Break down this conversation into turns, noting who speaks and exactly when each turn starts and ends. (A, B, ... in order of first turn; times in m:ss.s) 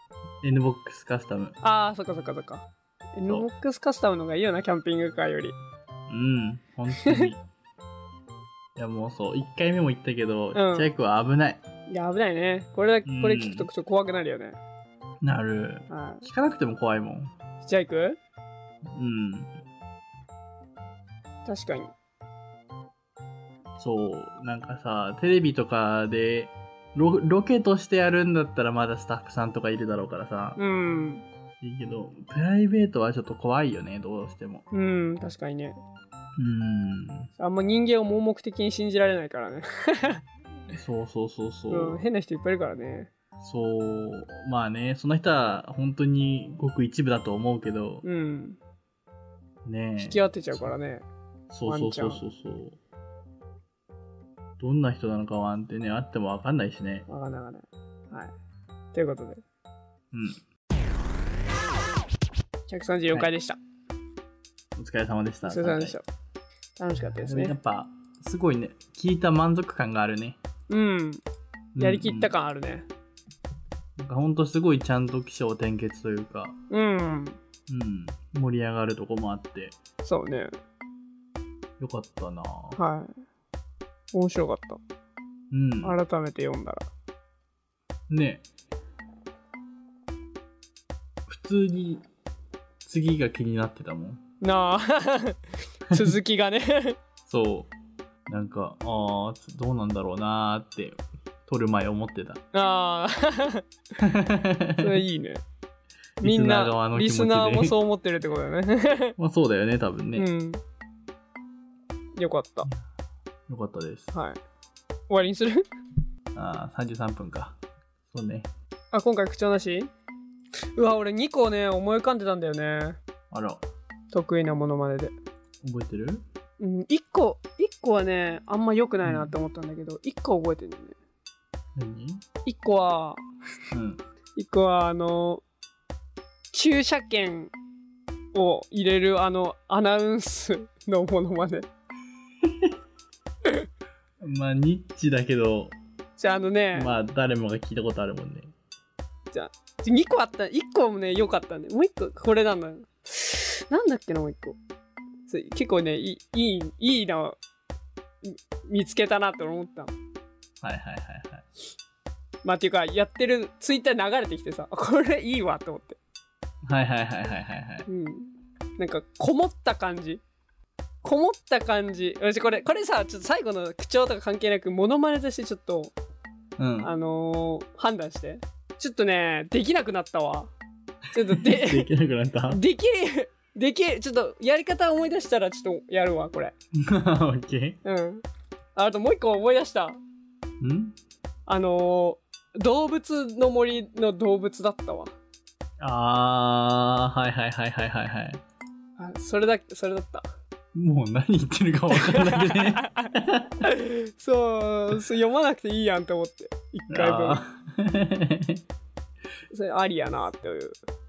0:00.4-0:01.6 A
0:01.6-0:05.6 B
0:06.1-0:07.4 A
0:06.9-0:07.3 B
0:08.8-0:11.6 A
0:10.5-0:10.9 B
0:11.9-0:14.6 B
0:13.0-0:13.7 A
0:15.2-0:17.3 A
0:15.9-0:16.2 B
0:17.6-0:18.2 B
0:18.8-0:19.6 A
0:21.4-0:21.9 B
0:23.8-0:30.6 A
0:30.6-0:31.2 B
0:31.6-0:34.6 A
0:34.7-0:35.7 B
0:36.4-0:37.3 A
0:37.4-0:40.2 B
0:40.7-0:42.0 A
0:41.7-0:43.1 B
0:43.4-0:48.0 A
0:48.0-0:48.6 B
0:49.6-0:50.7 A
0:50.0-0:51.0 B
0:51.5-0:52.8 A
0:51.6-0:52.2 B
0:54.6-0:57.1 A
0:57.1-0:58.3 B
0:58.9-0:59.4 B
1:00.1-1:00.4 A
1:02.7-1:03.6 B
1:04.8-1:06.0 A
1:05.4-1:06.0 B
1:06.8-1:07.5 B
1:07.0-1:10.4 A
1:10.7-1:11.2 B
1:11.7-1:12.3 A
1:11.8-1:12.8 B
1:14.0-1:16.6 A
1:16.7-1:17.4 B
1:17.7-1:19.8 A
1:20.0-1:20.5 B
1:21.8-1:22.8 A
1:22.8-1:23.1 B
1:24.1-1:24.8 B
1:25.5-1:26.0 A
1:25.8-1:26.8 B
1:28.1-1:28.4 A
1:31.3-1:32.0 A
1:32.8-1:34.2 A
1:34.4-1:37.0 B
1:37.3-1:37.7 A
1:38.3-1:42.4 A
1:42.5-1:43.6 B
1:44.0-1:44.9 A
1:44.8-1:45.4 B
1:46.2-1:47.8 A
1:46.2-1:49.2 B
1:49.2-1:50.3 A
1:50.1-1:50.6 B
1:52.2-1:52.7 B
1:53.5-1:54.1 A
1:54.1-1:54.4 B
1:55.1-1:55.6 B
1:56.3-1:57.6 A
1:58.1-1:58.5 A
1:58.9-1:59.9 B
2:00.8-2:03.0 B
2:03.3-2:03.6 A
2:04.1-2:05.1 B
2:05.6-2:06.2 A
2:06.6-2:10.9 B
2:09.0-2:09.3 A
2:11.8-2:12.2 A
2:12.4-2:13.2 B
2:13.7-2:14.0 A
2:14.4-2:15.4 B
2:16.5-2:17.5 B
2:18.3-2:21.7 B
2:22.4-2:22.7 A
2:24.2-2:25.7 A
2:26.2-2:26.9 B
2:26.7-2:28.5 A
2:29.3-2:34.6 B
2:35.3-2:37.4 B
2:38.2-2:39.9 B
2:40.6-2:41.4 A
2:42.4-2:46.0 B
2:46.6-2:47.9 A
2:47.9-2:50.2 B
2:51.0-2:55.9 B
2:56.6-2:56.9 A
2:56.8-3:00.5 B
3:01.1-3:01.9 B
3:01.3-3:02.6 A
3:02.5-3:06.5 B
3:06.8-3:07.8 A
3:07.8-3:08.2 B
3:08.8-3:10.0 B
3:10.6-3:11.0 A
3:11.5-3:15.1 B
3:15.8-3:18.4 A
3:19.0-3:20.2 B
3:20.7-3:23.6 A
3:21.9-3:27.4 B
3:26.9-3:28.6 A
3:29.5-3:30.8 B